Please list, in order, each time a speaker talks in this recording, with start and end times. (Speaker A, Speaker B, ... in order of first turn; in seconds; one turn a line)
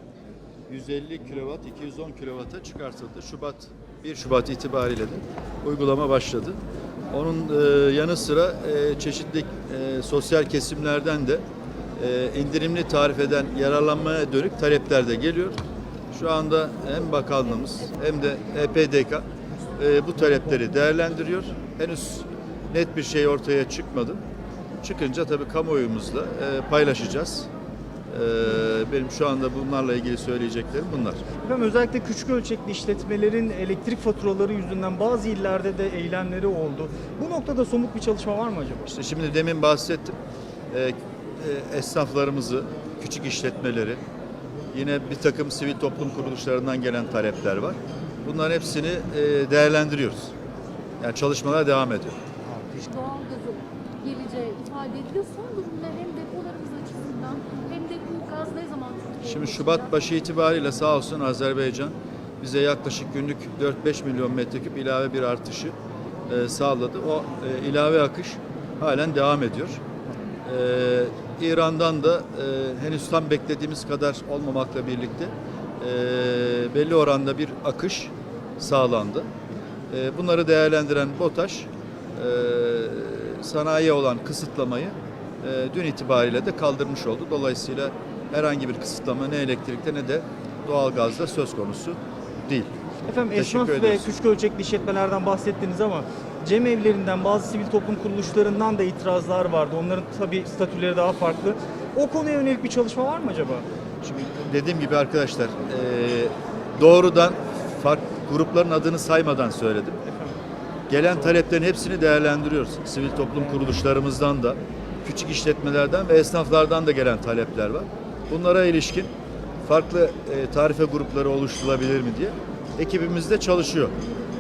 Speaker A: 0.7-6.6
Speaker A: 7.1-11.4
Speaker A: 12.0-19.2
Speaker A: 19.8-24.2
Speaker A: 24.8-27.5
Speaker A: 28.1-31.2
Speaker B: 31.4-38.9
Speaker A: 38.9-40.1
Speaker A: 40.7-44.0
Speaker A: 44.7-50.3
Speaker A: 51.0-52.2
Speaker C: 52.7-59.9
Speaker A: 59.2-65.8
Speaker A: 66.3-69.8
Speaker A: 70.5-79.3
Speaker A: 79.9-92.7
Speaker B: 93.1-103.7
Speaker A: 93.3-94.1
Speaker A: 104.0-110.0
Speaker B: 110.1-110.4
Speaker A: 110.9-119.1
Speaker B: 111.0-111.3
Speaker A: 119.6-123.9